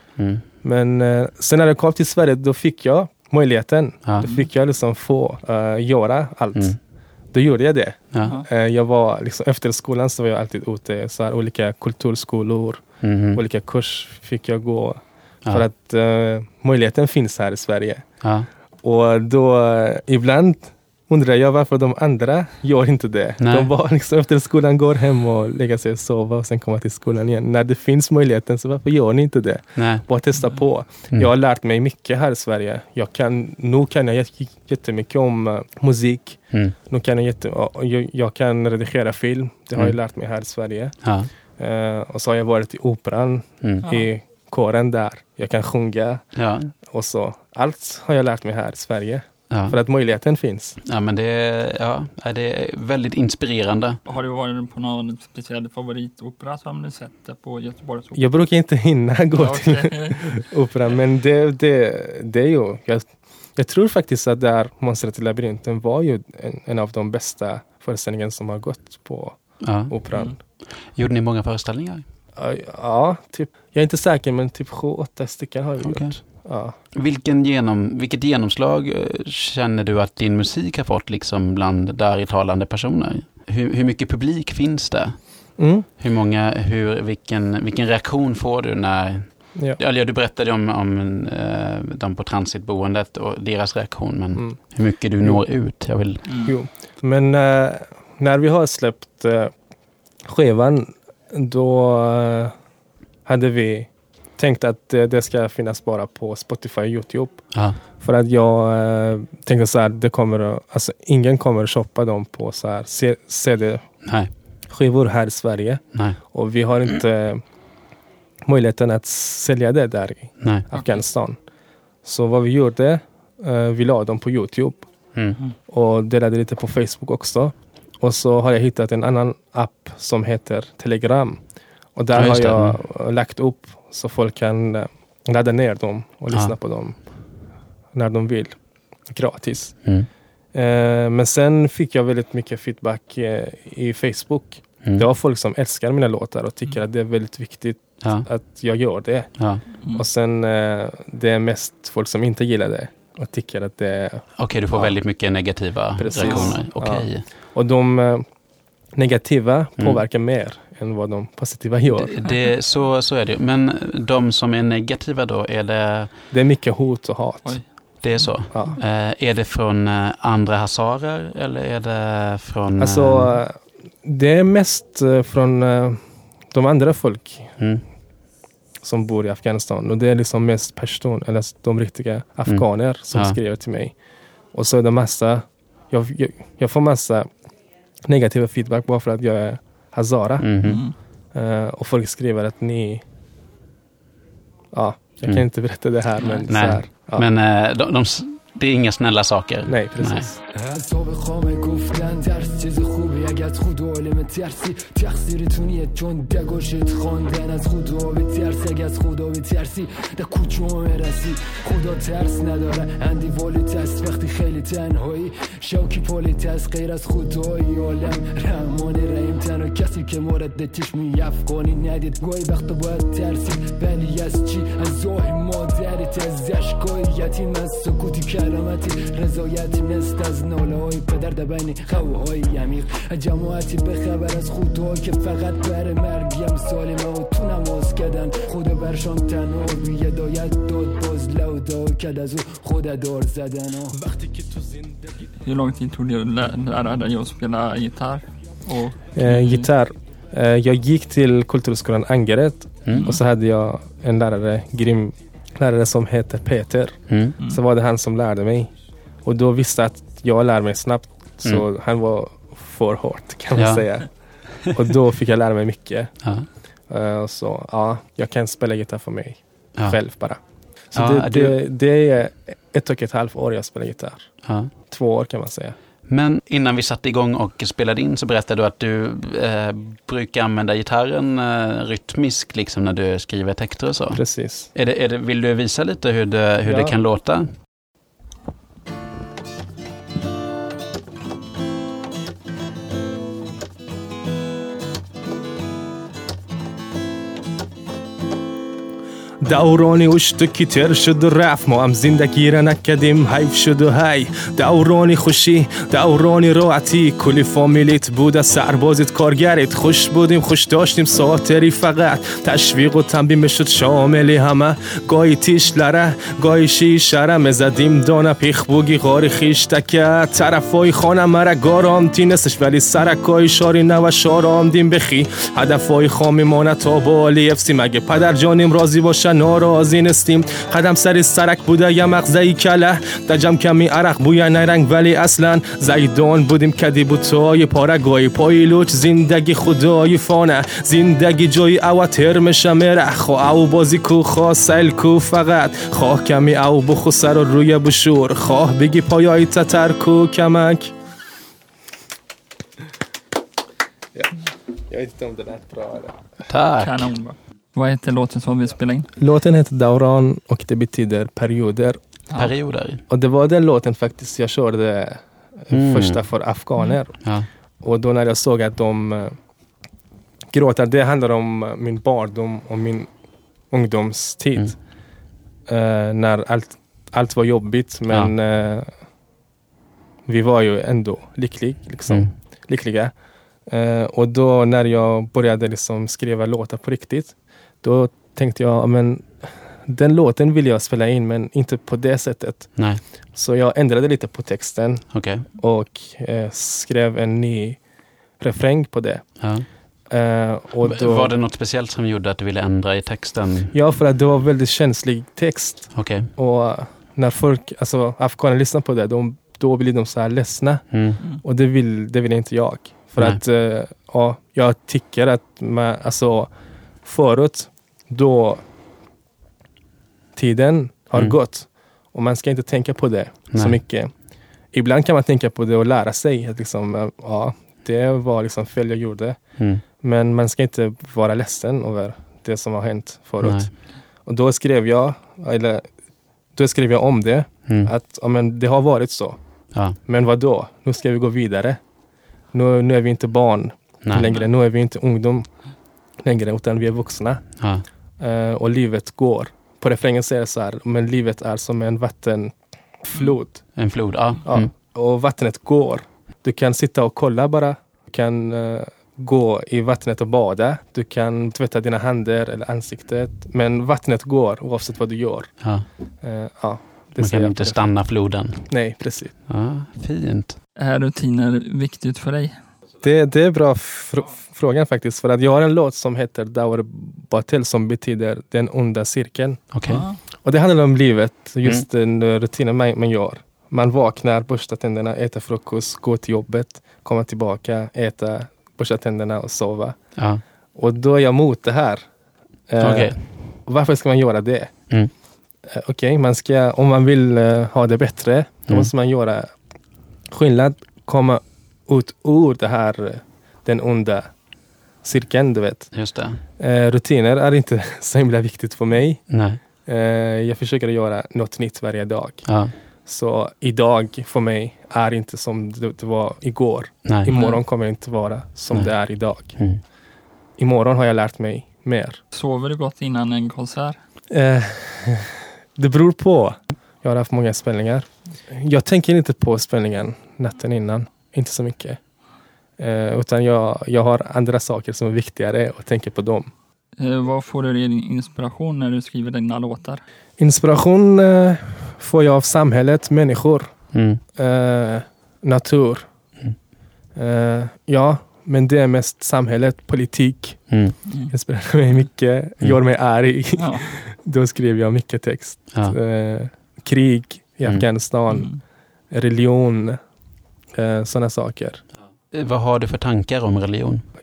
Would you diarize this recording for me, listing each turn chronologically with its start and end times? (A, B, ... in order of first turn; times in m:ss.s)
0:00.2-0:00.4 A
0:00.6-0:06.8 B
0:04.2-0:04.5 C
0:07.3-0:18.1 B
0:13.0-0:13.4 A
0:18.2-0:18.5 A
0:18.8-0:41.0 B
0:23.4-0:23.7 A
0:29.8-0:30.0 A
0:41.0-0:41.3 A
0:41.6-0:46.2 B
0:43.8-0:44.1 C
0:46.4-0:46.7 A
0:46.8-0:50.8 B
0:49.5-0:49.8 A
0:50.8-0:54.0 A
0:54.1-0:58.3 C
0:58.2-1:10.4 B
0:59.3-1:00.5 C
1:09.6-1:09.9 A
1:10.9-1:12.0 A
1:12.4-1:16.8 B
1:15.8-1:16.2 A
1:16.9-1:36.4 A
1:25.6-1:25.9 B
1:34.3-1:35.4 B
1:36.2-1:39.5 B
1:36.3-1:36.5 C
1:40.2-1:42.6 B
1:43.2-1:53.9 B
1:47.5-1:47.8 A
1:54.0-1:54.3 A
1:54.7-1:57.4 B
1:58.4-2:01.4 B
2:00.4-2:00.7 A
2:00.7-2:01.0 C
2:02.0-2:04.9 B
2:05.1-2:05.4 A
2:05.7-2:17.1 B
2:12.2-2:12.8 A
2:16.3-2:16.6 A
2:17.9-2:19.9 B
2:19.8-2:20.1 A
2:20.5-2:35.0 B
2:28.0-2:28.3 A
2:29.4-2:29.6 A
2:34.4-2:37.3 A
2:36.0-2:38.3 B
2:36.2-2:36.5 C
2:38.9-2:42.2 B
2:41.9-2:46.2 A
2:42.2-2:42.5 C
2:46.3-2:48.8 B
2:47.4-2:48.5 C
2:48.0-2:53.4 A
2:52.8-2:57.6 B
2:57.6-2:57.8 A
2:58.8-3:04.0 B
3:02.5-3:03.4 A
3:04.5-3:07.3 B
3:08.0-3:13.0 B
3:10.4-3:10.8 A
3:10.6-3:11.0 C
3:14.7-3:17.3 B
3:16.5-3:20.3 A
3:19.7-3:20.4 B
3:20.6-4:04.0 D
4:03.9-4:05.0 B
4:05.4-4:09.7 C
4:09.2-4:18.7 B
4:12.8-4:13.2 A
4:12.9-4:13.2 C
4:17.1-4:17.4 A
4:19.2-4:26.1 B
4:23.5-4:23.9 A
4:26.2-4:26.5 A
4:26.9-4:30.4 B
4:30.9-4:35.8 B
4:30.9-4:31.6 A
4:34.4-4:34.7 A
4:36.1-4:47.5 A
4:44.1-4:44.7 B
4:46.6-4:46.9 B
4:59.4-5:50.9 B
5:54.9-5:56.2 B
5:56.5-5:57.1 A
5:56.8-5:59.1 C
5:59.2-6:02.0 B
6:02.3-6:03.0 A
6:03.1-6:07.2 B
6:05.7-6:06.3 A
6:07.2-6:07.5 A
6:07.8-6:09.4 B
6:10.5-6:13.1 B
6:13.7-6:14.8 B
6:15.7-6:19.0 B
6:20.3-6:23.1 B
6:23.7-6:37.8 B
6:32.8-6:33.0 A
6:35.1-6:35.5 A
6:38.4-6:39.5 B
6:39.4-6:39.7 A
6:40.1-6:41.3 B
6:40.8-6:43.7 A
6:43.7-6:56.5 B
6:45.9-6:46.3 A
6:50.9-6:51.2 A
6:57.0-6:58.6 B
7:00.4-7:04.1 B
7:03.5-7:03.8 A
7:04.7-7:09.4 B
7:09.6-7:09.8 A
7:10.0-7:15.9 B
7:13.4-7:13.7 A
7:16.6-7:19.4 B
7:20.0-7:21.8 B
7:22.5-7:25.5 B
7:24.0-7:24.4 A
7:26.2-7:27.4 B
7:27.6-7:27.9 A
7:28.2-7:33.6 B
7:33.7-7:34.7 A
7:34.4-7:45.6 B
7:45.6-7:45.9 A
7:46.2-7:49.4 B
7:47.2-7:48.9 A
7:49.5-7:50.6 A
7:50.8-7:52.6 C
7:53.0-8:10.0 B
7:59.7-8:00.0 A
7:59.9-8:00.2 C
8:10.2-8:10.4 A
8:10.8-8:12.1 B
8:12.7-8:14.8 B
8:12.8-8:13.2 A
8:15.7-8:19.5 B
8:20.3-8:24.3 B
8:25.0-8:25.9 B
8:25.9-8:26.4 A
8:26.6-8:29.3 B
8:29.3-8:29.6 A
8:29.8-8:32.5 B
8:32.5-8:32.7 A
8:33.1-8:39.6 B
8:37.0-8:37.4 A
8:37.3-8:37.6 C
8:38.7-8:39.8 A
8:40.6-8:42.2 B
8:42.3-8:44.0 C
8:44.3-8:52.0 B
8:52.8-8:56.5 B
8:57.0-9:00.0 C
9:00.4-9:06.1 B
9:03.9-9:04.2 A
9:07.2-9:18.5 B
9:10.7-9:11.0 A
9:13.6-9:13.9 C
9:18.3-9:18.6 C
9:19.1-9:20.0 B
9:20.7-9:21.8 B
9:22.3-9:24.0 A